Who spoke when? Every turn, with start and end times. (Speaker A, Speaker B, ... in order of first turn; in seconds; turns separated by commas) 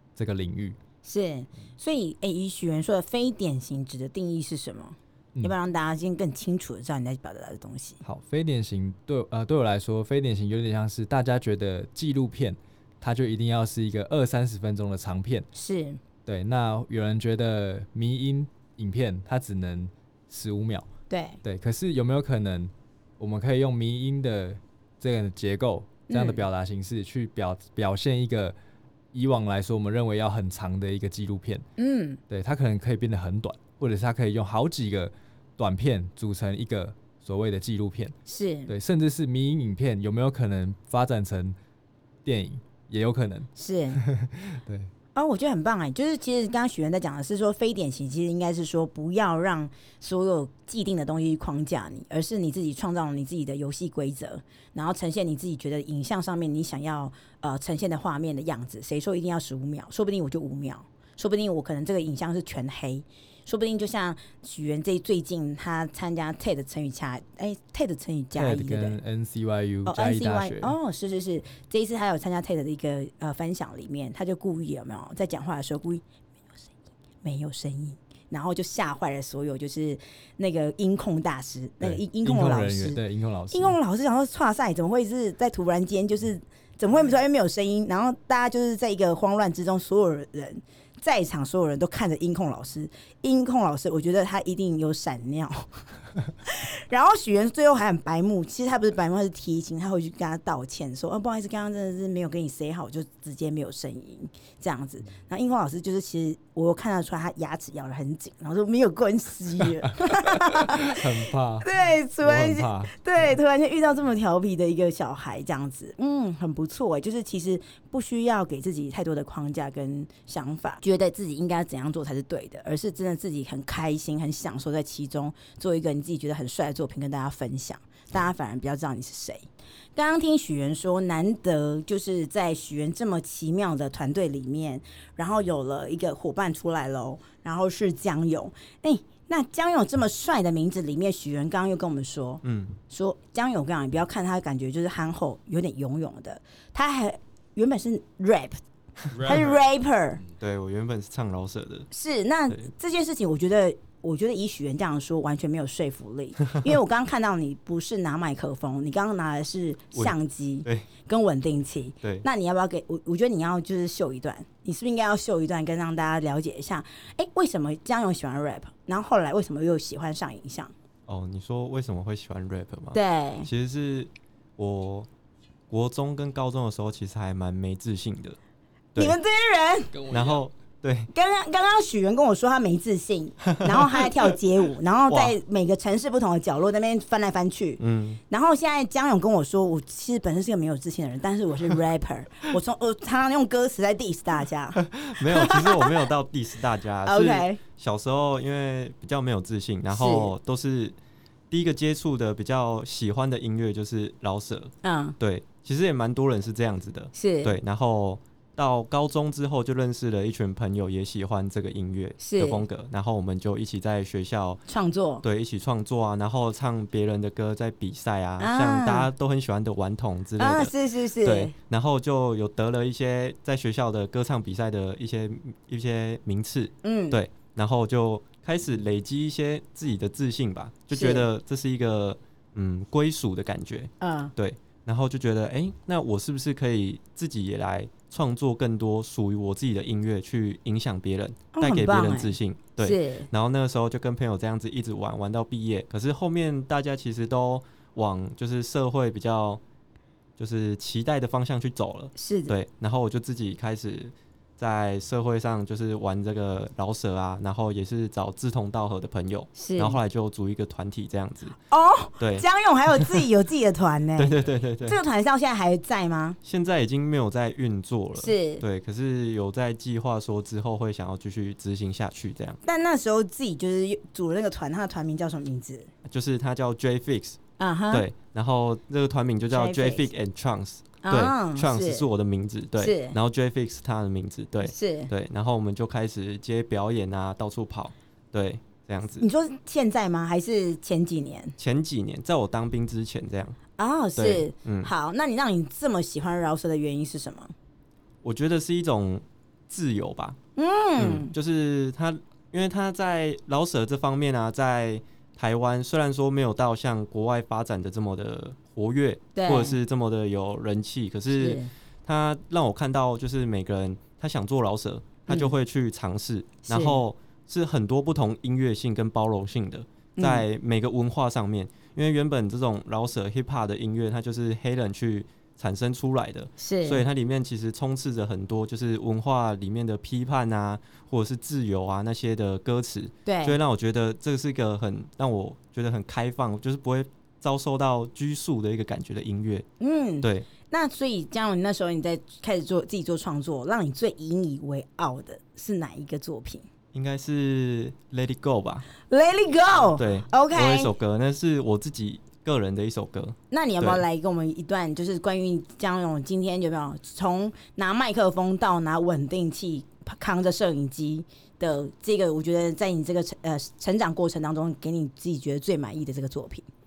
Speaker A: 0.1-0.8, Speaker B: 1.0-8.0, Speaker A: 8.0-15.5, Speaker B: 15.5-16.0, Speaker A: 16.2-20.9, Speaker B: 21.1-21.4, Speaker A: 21.4-28.6, Speaker B: 26.1-26.4, Speaker A: 29.1-31.6, Speaker B: 31.8-32.2, Speaker A: 32.3-38.1, Speaker B: 38.3-38.7, Speaker A: 38.7-41.5, Speaker A: 42.2-44.9, Speaker B: 43.5-44.0, Speaker B: 45.1-69.0, Speaker A: 68.3-70.8, Speaker B: 69.8-83.0, Speaker A: 81.8-83.8, Speaker B: 83.5-95.8, Speaker B: 96.4-111.0, Speaker A: 110.1-111.7, Speaker B: 111.6-148.6, Speaker A: 112.2-113.3, Speaker C: 142.4-142.7, Speaker A: 149.1-149.6, Speaker B: 149.2-150.2, Speaker C: 150.4-151.9, Speaker B: 151.9-170.7, Speaker C: 159.9-160.9, Speaker C: 171.1-175.1, Speaker B: 172.9-173.5, Speaker C: 175.7-178.4, Speaker B: 179.0-179.9, Speaker A: 179.9-180.4, Speaker C: 180.1-181.1, Speaker B: 181.1-195.9, Speaker C: 183.4-184.1, Speaker C: 185.1-185.3, Speaker C: 187.8-188.2, Speaker C: 194.8-200.9, Speaker B: 197.0-197.6, Speaker B: 199.9-200.3, Speaker C: 201.5-214.6, Speaker B: 204.8-205.2, Speaker B: 207.1-207.6, Speaker B: 212.2-212.6, Speaker B: 214.7-215.2, Speaker C: 215.2-249.6, Speaker B: 218.4-219.1, Speaker B: 220.4-221.5, Speaker B: 226.8-227.2, Speaker B: 230.9-231.2, Speaker B: 234.0-234.3, Speaker B: 241.5-243.3, Speaker C: 250.4-261.6, Speaker B: 252.2-252.5, Speaker B: 259.6-260.0, Speaker B: 261.7-266.4, Speaker C: 262.2-262.4, Speaker C: 264.2-265.0, Speaker C: 266.4-272.6, Speaker B: 268.2-268.6, Speaker B: 272.6-275.9, Speaker C: 276.0-277.4, Speaker B: 277.6-278.0, Speaker C: 277.9-289.2, Speaker B: 279.5-280.1, Speaker B: 281.0-282.1, Speaker B: 282.8-283.1, Speaker B: 284.7-285.1, Speaker B: 289.2-291.6, Speaker C: 291.6-293.6, Speaker B: 293.8-297.5, Speaker C: 294.1-294.9, Speaker C: 298.2-300.4, Speaker B: 300.6-301.3, Speaker C: 301.0-339.7, Speaker B: 309.3-309.8, Speaker B: 311.3-311.7, Speaker B: 315.3-315.5, Speaker B: 316.7-317.0, Speaker B: 320.2-320.4, Speaker B: 326.6-327.0, Speaker B: 333.2-333.6, Speaker B: 339.8-346.6, Speaker C: 340.2-340.5, Speaker C: 346.9-348.9, Speaker B: 349.1-350.9, Speaker C: 349.8-354.0, Speaker B: 353.5-366.7